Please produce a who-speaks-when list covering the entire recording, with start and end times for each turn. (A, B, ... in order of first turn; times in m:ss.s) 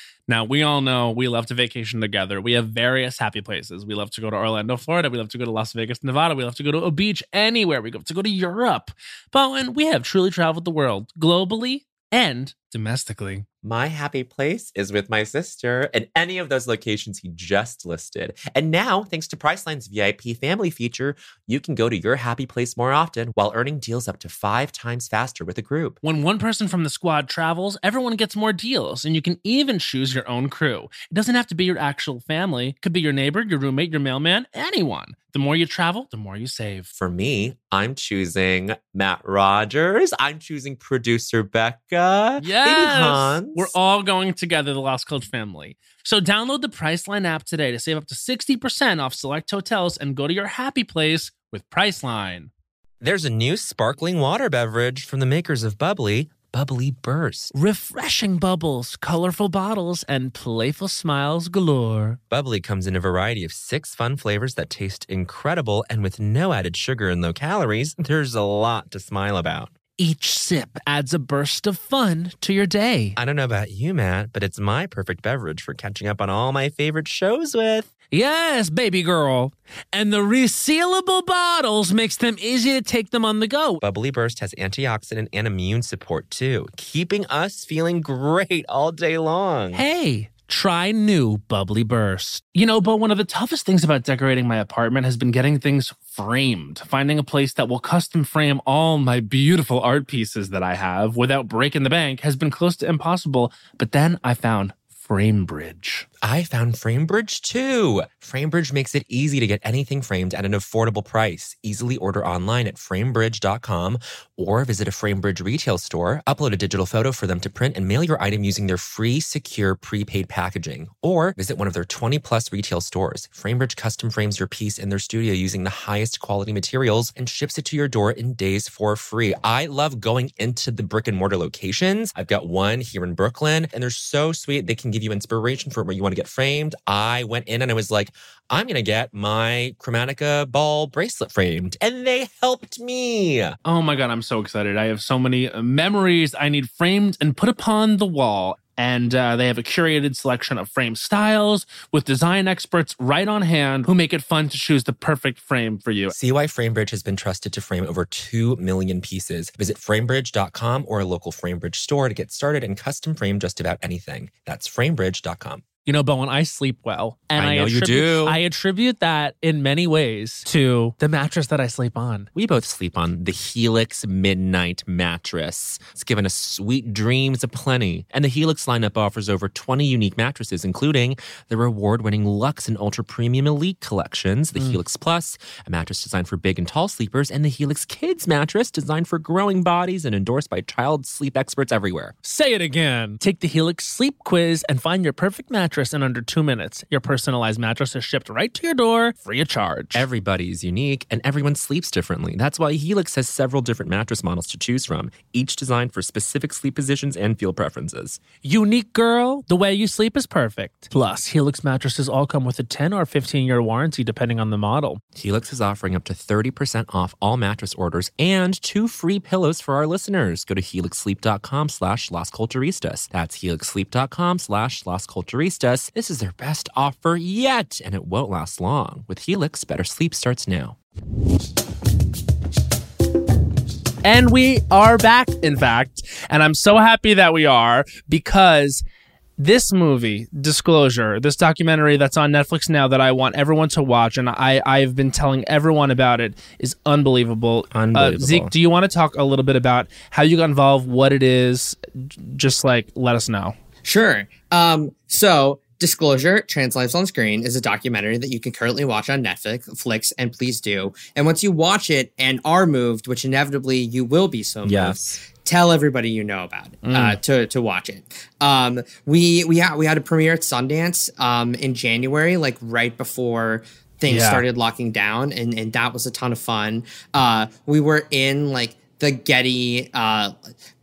0:00.3-0:13.4 A
0:13.6-0:26.0 B
0:26.0-0:36.9 A
0:36.9-0:43.7 B
0:42.4-0:52.5 A
0:53.0-0:57.5 B
0:57.5-1:02.2 A
1:02.3-1:09.7 B
1:10.0-1:13.2 A
1:13.2-1:17.9 B
1:18.1-1:23.8 A
1:23.8-1:29.8 B
1:29.7-1:46.1 A
1:46.2-2:23.6 B
2:23.6-2:36.1 A
2:36.1-2:45.6 B
2:45.8-2:52.3 A
2:47.3-2:48.4 B
2:52.3-3:12.1 B
3:12.2-3:20.0 A
3:19.9-3:28.2 B
3:28.4-3:35.0 A
3:35.1-3:50.8 B
3:54.0-3:58.8 A
3:59.4-4:13.6 A
4:07.7-4:08.5 B
4:13.8-4:40.4 C
4:24.6-4:25.2 B
4:26.8-4:27.2 A
4:34.1-4:34.4 A